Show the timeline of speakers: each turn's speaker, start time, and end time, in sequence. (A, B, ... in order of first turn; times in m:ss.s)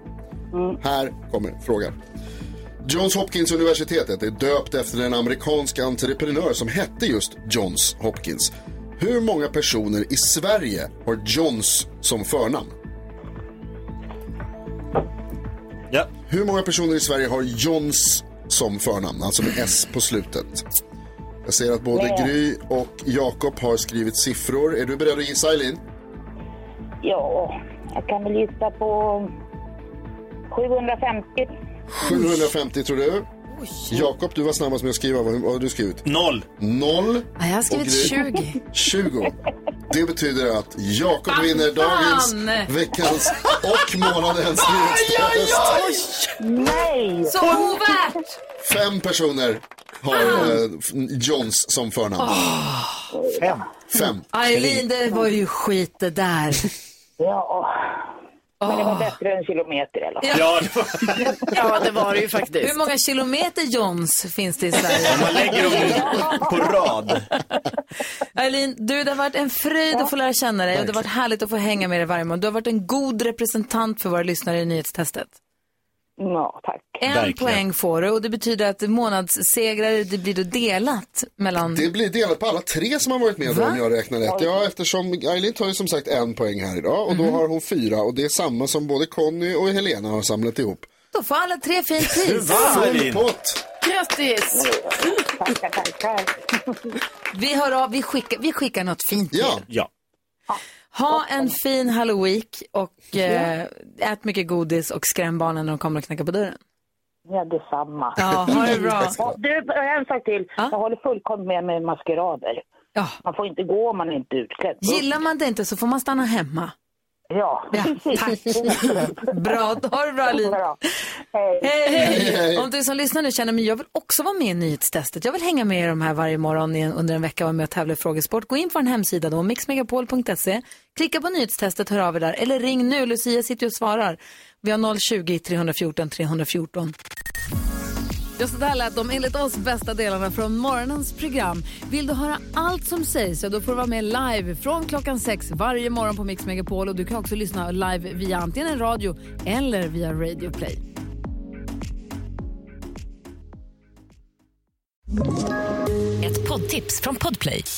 0:00.5-0:00.8 A
0:00.8-0:02.0 B
0:02.8-0:12.8 B
0:16.3-0:20.6 B
0:21.4-0:25.8 B
0:21.9-0:22.3 A
0:27.0-0:29.3 A
0:30.5-0:31.5 A
0:32.0-0:33.3 B
0:32.0-0:32.4 C
0:33.5-0:34.1 C
0:33.9-0:36.0 B
0:36.0-0:36.4 D
0:36.6-0:38.2 B
0:37.4-0:38.6 C
0:38.7-0:39.3 B
0:39.9-0:45.8 B
0:41.3-0:42.7 C
0:45.0-0:46.7 C
0:46.4-0:47.6 A
0:47.2-0:48.4 C
0:48.6-0:52.4 B
0:50.1-0:50.6 C
0:52.2-0:53.1 C
0:53.1-0:53.6 A
0:53.4-0:53.6 D
0:53.9-0:54.2 B
0:54.3-0:56.7 C
0:54.5-0:54.8 D
0:57.2-1:01.3 A
0:58.6-0:59.2 C
1:00.2-1:00.5 C
1:00.3-1:01.2 D
1:01.5-1:02.8 E
1:02.6-1:06.4 C
1:05.0-1:07.2 D
1:06.0-1:06.7 A
1:07.1-1:07.6 C
1:08.4-1:15.4 C
1:16.2-1:17.0 A
1:17.0-1:21.8 C
1:17.0-1:17.6 D
1:21.7-1:30.9 B
1:23.5-1:23.8 C
1:24.3-1:24.6 A
1:27.1-1:27.4 C
1:31.1-1:32.8 C
1:32.0-1:33.3 D
1:32.5-1:33.6 B
1:33.8-1:34.8 E
1:34.5-1:36.8 A
1:37.3-1:39.6 C
1:39.3-1:39.6 B
1:40.9-1:46.6 C
1:41.1-1:41.5 A
1:47.3-1:52.6 A
1:48.2-1:49.2 C
1:53.2-1:55.1 A
1:54.8-1:56.7 C
1:57.3-1:59.6 A
1:57.7-2:00.6 C
2:00.3-2:00.8 A
2:01.3-2:02.2 A
2:01.6-2:16.9 C
2:02.0-2:02.7 B
2:18.4-2:30.8 C
2:36.2-2:37.7 C